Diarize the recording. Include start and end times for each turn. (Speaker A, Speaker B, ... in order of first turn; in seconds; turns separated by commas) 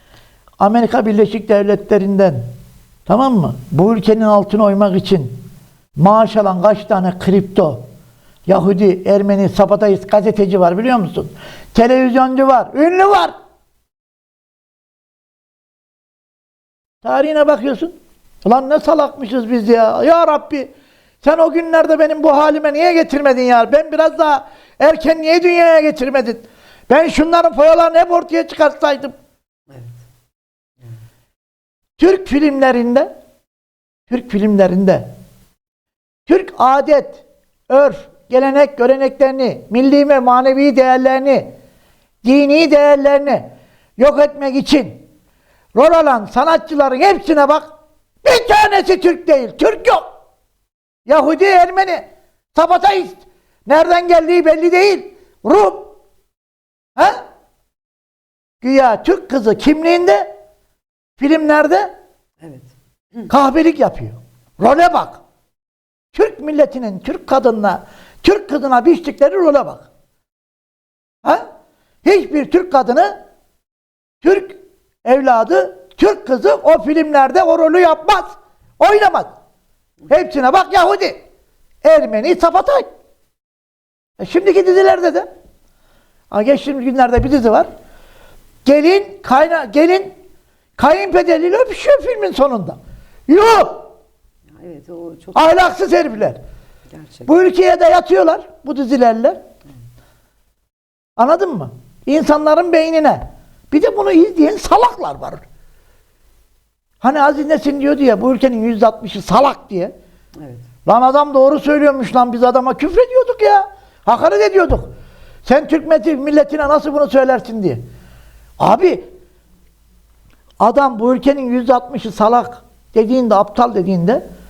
Speaker A: 0.6-2.5, Speaker A: 3.1-5.4, Speaker A: 6.0-7.8, Speaker A: 8.5-13.3, Speaker A: 17.0-20.7, Speaker A: 21.2-29.1, Speaker A: 32.0-33.1, Speaker A: 34.1-35.1, Speaker A: 36.3-41.5, Speaker A: 42.2-45.0, Speaker A: 45.7-47.7, Speaker A: 48.2-50.0, Speaker A: 51.1-55.9, Speaker A: 57.0-57.2, Speaker A: 58.6-60.3, Speaker A: 61.2-61.9, Speaker B: 62.4-62.7, Speaker A: 63.3-65.2, Speaker A: 66.1-69.9, Speaker A: 72.0-73.2, Speaker A: 74.2-79.3, Speaker A: 80.1-81.2, Speaker A: 81.8-82.9, Speaker A: 84.2-85.3, Speaker A: 86.3-87.7, Speaker A: 88.6-90.1, Speaker A: 90.8-93.9, Speaker B: 94.5-95.5, Speaker A: 95.3-96.4, Speaker B: 96.9-97.3, Speaker A: 97.2-99.4, Speaker A: 101.2-105.4, Speaker A: 107.0-109.9, Speaker B: 110.4-110.6, Speaker A: 110.8-114.9, Speaker A: 115.4-117.8, Speaker A: 118.6-119.1, Speaker A: 120.6-124.2